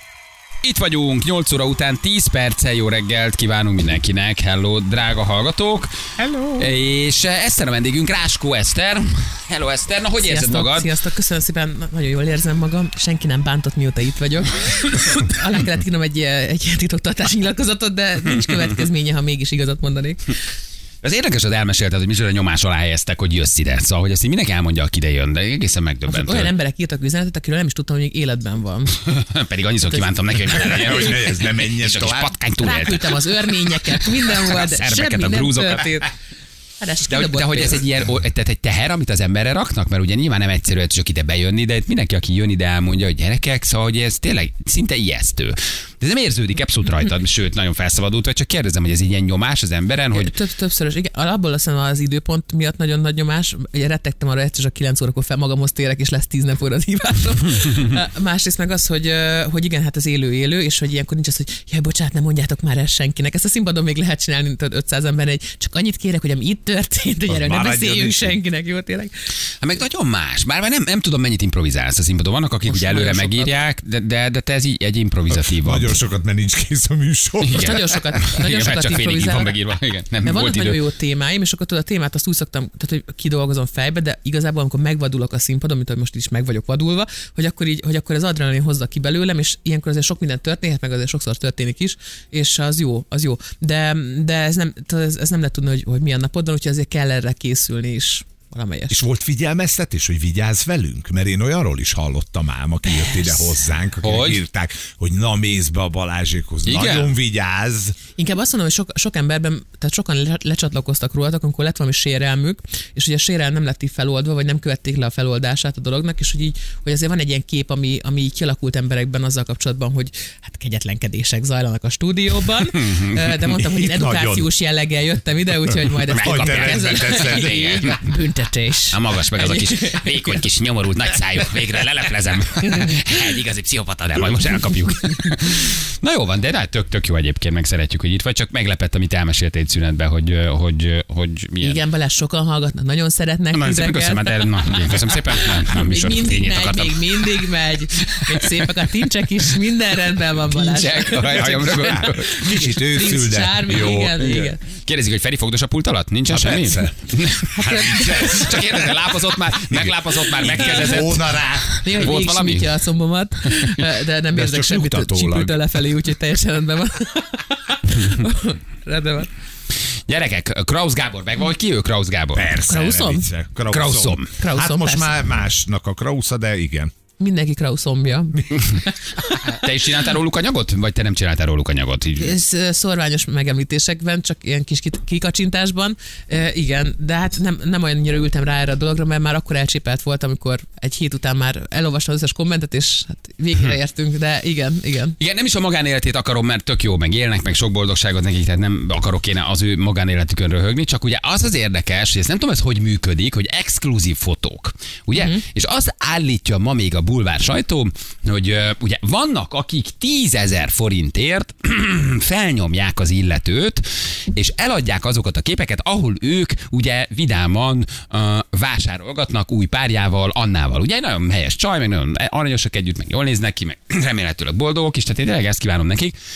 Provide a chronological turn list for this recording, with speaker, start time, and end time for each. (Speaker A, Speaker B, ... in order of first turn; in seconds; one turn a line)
Speaker A: 0.6-5.9
Speaker B: 6.2-6.7
Speaker A: 6.6-10.9
Speaker B: 10.2-20.4
Speaker A: 21.0-26.5
Speaker B: 26.1-29.0
Speaker A: 29.1-33.3
Speaker B: 29.8-30.7
Speaker C: 30.4-32.4
Speaker B: 32.6-36.1
Speaker A: 34.2-36.0
Speaker B: 36.8-37.9
Speaker A: 37.1-50.3
Speaker B: 50.1-69.1
Speaker C: 67.3-68.4
Speaker A: 69.6-76.0
Speaker B: 72.7-73.5
Speaker C: 75.3-78.0
Speaker A: 77.4-80.8
Speaker B: 77.5-79.6
Speaker B: 80.2-99.0
Speaker C: 98.9-108.0
Speaker B: 102.9-103.5
Speaker A: 104.0-104.4
Speaker A: 106.7-107.1
Speaker B: 108.2-130.4
Speaker A: 122.9-123.1
Speaker C: 123.6-124.5
Speaker C: 126.1-127.5
Speaker A: 126.1-128.1
Speaker A: 128.9-141.8
Speaker B: 132.6-133.2
Speaker B: 135.0-135.3
Speaker B: 141.6-154.6
Speaker A: 143.5-148.7
Speaker A: 150.4-152.3
Speaker C: 151.3-154.3
Speaker A: 154.2-162.7
Speaker C: 156.3-162.1
Speaker B: 157.6-158.6
Speaker B: 160.6-161.1
Speaker B: 161.8-169.3
Speaker C: 164.3-165.6
Speaker A: 170.1-172.5
Speaker C: 172.3-176.9
Speaker B: 172.6-173.3
Speaker A: 173.7-174.3
Speaker B: 174.4-175.1
Speaker B: 177.2-179.5
Speaker A: 179.4-182.3
Speaker B: 182.2-195.2
Speaker A: 195.2-226.2